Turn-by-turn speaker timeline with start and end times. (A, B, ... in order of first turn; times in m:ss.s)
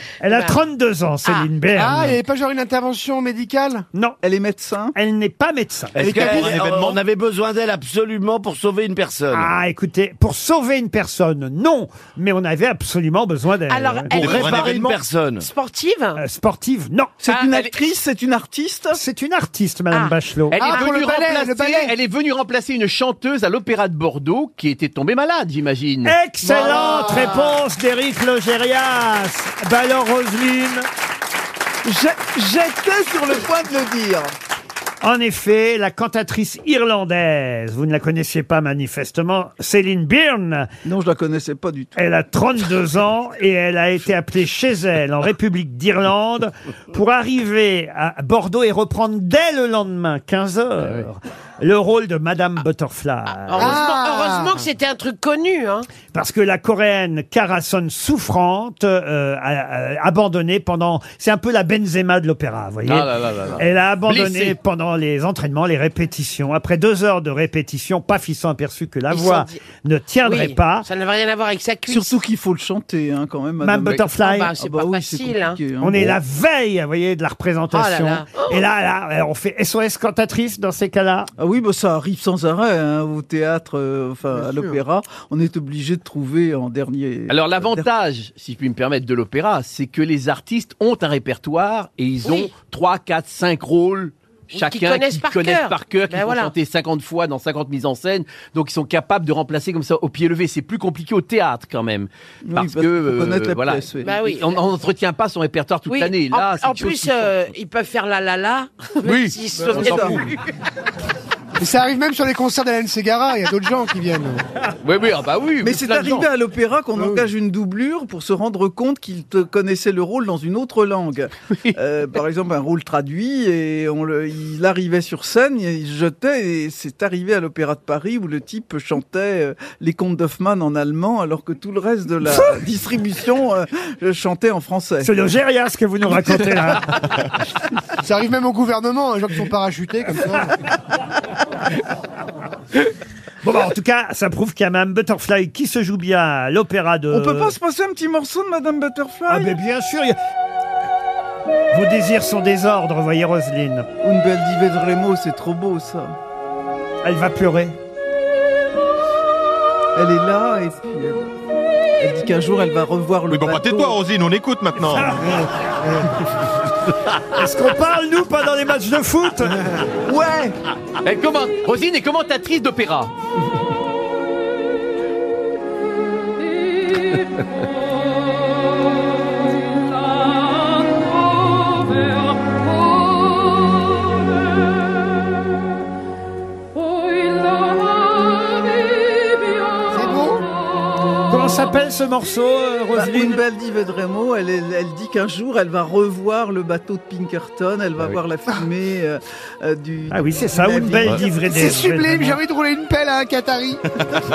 0:00.2-0:02.2 A
0:00.3-0:00.6 B
0:01.8-0:03.9 C
0:04.2-0:05.0 D
0:05.0-0:06.1 A
0:06.0-0:09.5 E
0:06.0-0:07.0 F
0:06.1-0:06.5 C
0:09.3-0:14.4 A
0:13.7-0:14.8 B
0:14.1-0:15.5 E
0:14.2-0:15.0 F
0:15.4-0:16.2 B
0:16.2-0:17.2 A
0:17.2-0:19.0 D
0:17.4-0:17.7 G
0:19.0-0:20.6 A
0:19.9-0:20.9 B
0:20.5-0:26.2 G
0:20.6-0:22.0 C
0:26.0-0:30.9 A
0:26.6-0:27.3 C
0:31.8-0:34.3 D
0:35.0-0:40.7 A
0:40.8-0:42.0 D
0:42.0-0:53.8 A
0:50.8-0:51.1 G
0:53.4-0:55.9 B
0:53.6-0:54.6 C
0:56.1-1:10.9 A
1:02.8-1:04.6 G
1:09.1-1:09.6 B
1:10.2-1:12.2 B
1:11.9-1:16.2 D
1:13.6-1:14.5 A
1:14.2-1:15.6 B
1:15.8-1:21.3 A
1:17.7-1:18.6 B
1:21.4-1:27.9 D
1:24.4-1:24.8 C
1:27.3-1:47.3 G
1:32.2-1:32.5 B
1:34.5-1:36.5 B
1:42.4-1:44.2 D
1:44.0-1:44.6 B
1:45.9-1:50.3 B
1:49.0-1:49.3 G
1:49.6-1:50.3 D
1:51.6-1:54.4 C
1:54.8-1:56.3 G
1:55.6-2:15.1 D
1:57.0-1:57.2 C
2:15.0-2:17.0 A
2:18.0-2:20.6 C
2:23.4-2:27.5 A
2:27.1-2:29.6 D
2:29.3-2:30.2 A
2:31.7-2:33.9 A
2:34.0-2:36.2 D
2:37.0-2:37.8 A
2:40.0-2:41.3 D
2:42.0-2:44.0 D
2:43.3-2:45.2 F
2:44.8-2:45.3 A
2:47.3-2:49.6 A
2:50.0-2:50.6 D
2:51.0-2:53.1 G
3:09.9-3:10.4 C
3:11.3-3:13.4 A
3:12.9-3:21.3 D
3:20.1-3:22.4 A
3:21.2-3:23.8 C